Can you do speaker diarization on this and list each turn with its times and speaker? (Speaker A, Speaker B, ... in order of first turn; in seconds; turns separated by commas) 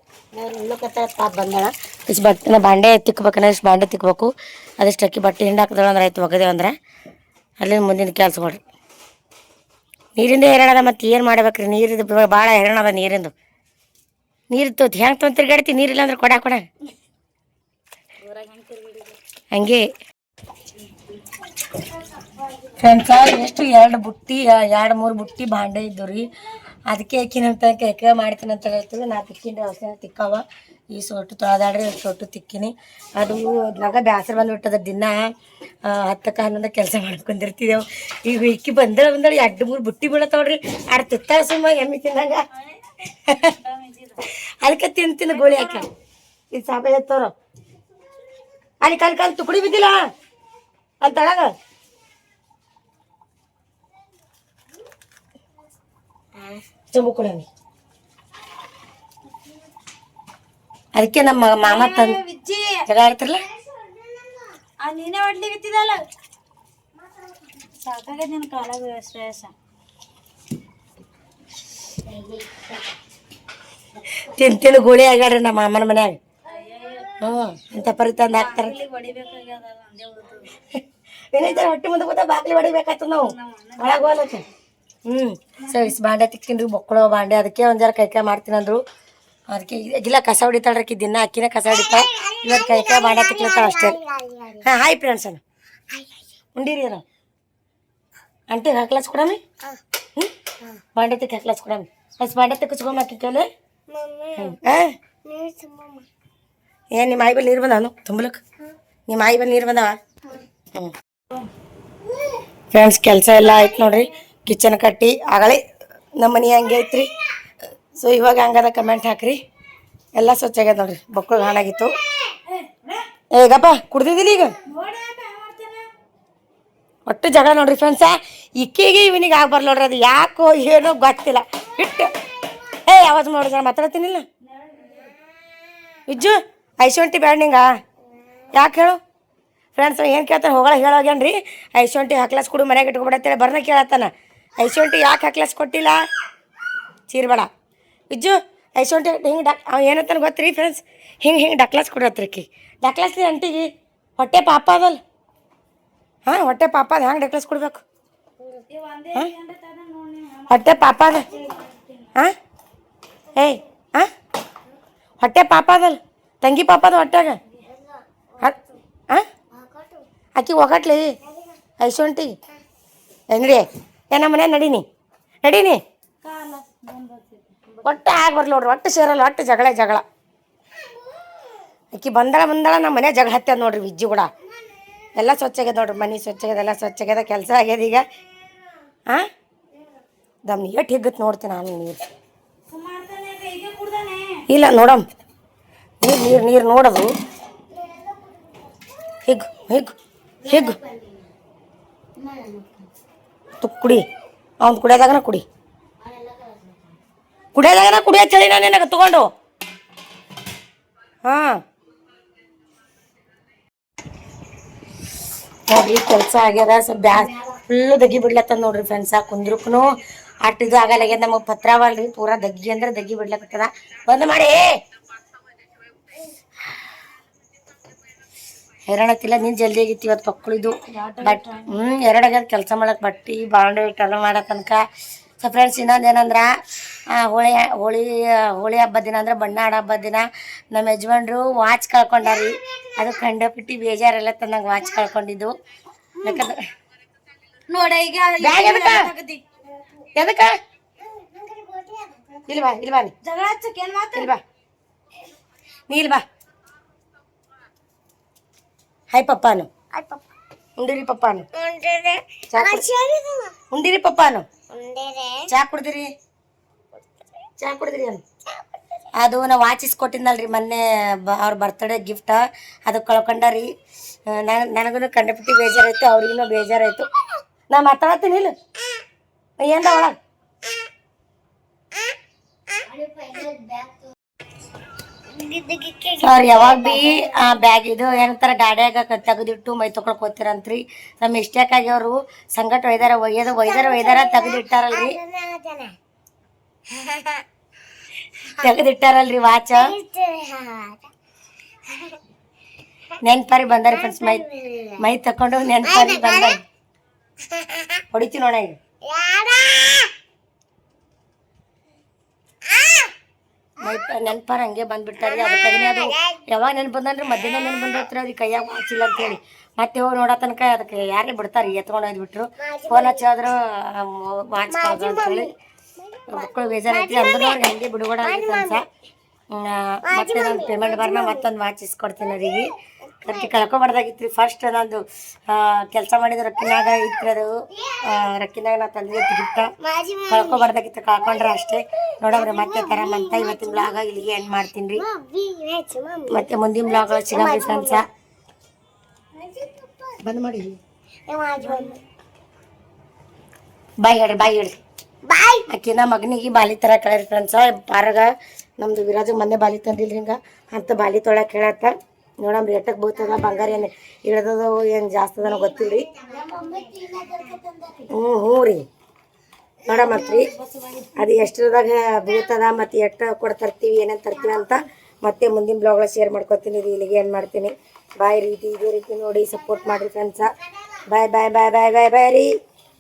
Speaker A: 0.3-6.8, Speaker A: 7.6-8.6, Speaker A: 10.2-13.3, Speaker A: 14.5-16.6, Speaker B: 18.2-19.2, Speaker A: 19.5-19.9, Speaker B: 21.7-23.1, Speaker A: 22.8-26.3, Speaker A: 26.9-35.2, Speaker A: 35.8-42.4, Speaker B: 42.5-44.3, Speaker A: 43.3-43.5, Speaker A: 44.6-45.9, Speaker B: 45.2-45.9, Speaker A: 46.5-47.3, Speaker A: 48.8-50.0, Speaker A: 51.0-51.5, Speaker A: 56.9-57.5, Speaker A: 60.9-62.2, Speaker B: 61.6-62.9, Speaker A: 62.9-63.4, Speaker C: 63.4-64.5, Speaker B: 64.8-66.0, Speaker C: 67.0-67.3, Speaker B: 67.7-69.5, Speaker C: 72.1-73.0, Speaker A: 74.2-76.2, Speaker B: 76.5-77.2, Speaker A: 77.2-78.8, Speaker B: 78.3-80.6, Speaker A: 81.3-84.4, Speaker B: 81.4-81.7, Speaker B: 83.1-84.5, Speaker A: 85.1-88.8, Speaker B: 85.6-86.0, Speaker A: 89.5-94.0, Speaker C: 91.7-94.7, Speaker A: 94.6-95.4, Speaker C: 95.9-96.3, Speaker A: 96.5-97.0, Speaker A: 98.5-99.4, Speaker A: 101.0-103.5, Speaker C: 103.9-104.6, Speaker A: 104.4-104.9, Speaker C: 105.2-106.1, Speaker A: 106.9-108.4, Speaker A: 109.1-110.0, Speaker A: 112.7-115.6, Speaker A: 116.2-117.1, Speaker A: 118.0-119.4, Speaker A: 120.2-122.0, Speaker B: 122.5-123.1, Speaker A: 123.3-124.6, Speaker B: 124.6-125.9, Speaker A: 127.1-132.1, Speaker C: 131.8-132.8, Speaker A: 132.8-134.3, Speaker B: 134.4-135.2, Speaker A: 136.1-137.7, Speaker A: 138.5-139.0, Speaker A: 139.8-146.0, Speaker A: 147.1-147.5, Speaker A: 148.1-155.0, Speaker A: 156.3-157.8, Speaker B: 158.4-162.2, Speaker A: 160.5-161.3, Speaker A: 163.4-164.1, Speaker A: 165.2-167.4, Speaker C: 167.6-168.8, Speaker C: 169.5-170.1, Speaker A: 170.4-171.1, Speaker C: 171.2-171.6, Speaker A: 171.8-172.3, Speaker A: 173.3-174.8, Speaker A: 175.4-175.8, Speaker B: 176.2-178.0, Speaker A: 177.8-180.0, Speaker C: 180.8-181.6, Speaker A: 181.9-184.3, Speaker C: 184.5-184.8, Speaker A: 185.2-188.0, Speaker A: 190.4-192.0, Speaker B: 192.7-194.4, Speaker A: 194.5-195.1, Speaker A: 196.0-197.1, Speaker C: 197.7-198.9, Speaker A: 199.3-199.9, Speaker C: 200.4-201.3, Speaker A: 200.5-200.8, Speaker C: 202.2-202.9, Speaker A: 203.6-204.0, Speaker A: 204.6-205.4, Speaker C: 206.0-207.0, Speaker A: 207.6-209.3, Speaker A: 211.2-211.6, Speaker A: 215.7-224.8, Speaker A: 228.9-234.8, Speaker B: 230.9-231.8, Speaker A: 235.4-236.5, Speaker A: 237.1-245.5, Speaker C: 242.2-243.2, Speaker C: 244.8-245.1, Speaker B: 246.2-246.5, Speaker A: 246.2-246.6, Speaker B: 247.7-249.4, Speaker A: 248.4-249.1, Speaker A: 250.2-250.5, Speaker C: 251.0-252.6, Speaker A: 252.5-253.1, Speaker B: 253.2-254.3, Speaker A: 254.1-254.4, Speaker A: 255.9-256.2, Speaker A: 259.1-259.7, Speaker C: 259.9-260.2, Speaker A: 260.8-261.5, Speaker C: 261.6-263.6, Speaker A: 262.5-262.9, Speaker A: 263.7-264.5, Speaker C: 264.7-265.5, Speaker A: 265.5-266.1, Speaker A: 267.6-268.2, Speaker C: 268.5-269.1, Speaker A: 269.2-273.7, Speaker A: 274.3-277.1, Speaker A: 277.7-278.5, Speaker A: 279.6-280.1, Speaker C: 282.9-284.1, Speaker C: 285.3-287.3, Speaker A: 286.2-295.2, Speaker C: 293.6-295.9, Speaker C: 296.9-297.4, Speaker A: 298.6-299.9, Speaker C: 299.7-301.1, Speaker A: 303.2-304.4, Speaker C: 303.9-305.1, Speaker A: 305.0-306.6, Speaker C: 305.8-306.6, Speaker A: 308.1-308.8, Speaker C: 309.0-310.1, Speaker C: 312.7-313.1, Speaker A: 313.8-325.5, Speaker C: 315.2-316.4, Speaker C: 322.6-323.2, Speaker C: 324.7-327.6, Speaker A: 326.3-328.8, Speaker C: 328.2-328.8, Speaker A: 329.5-337.5, Speaker C: 330.1-331.5, Speaker C: 332.2-333.6, Speaker C: 337.7-338.2, Speaker A: 338.0-339.7, Speaker C: 339.8-340.7, Speaker A: 340.3-345.0, Speaker C: 341.2-344.2, Speaker C: 344.9-348.0, Speaker A: 346.3-348.1, Speaker C: 349.4-350.3, Speaker A: 350.2-350.8, Speaker C: 351.3-352.0, Speaker B: 351.6-352.0, Speaker A: 354.0-354.8, Speaker C: 355.3-355.7, Speaker A: 355.7-366.1, Speaker C: 363.1-363.8, Speaker C: 365.4-368.1, Speaker A: 368.1-368.9, Speaker A: 369.9-370.5, Speaker B: 369.9-371.3, Speaker A: 371.2-380.5, Speaker C: 374.4-374.8, Speaker C: 379.5-381.0, Speaker A: 381.1-382.5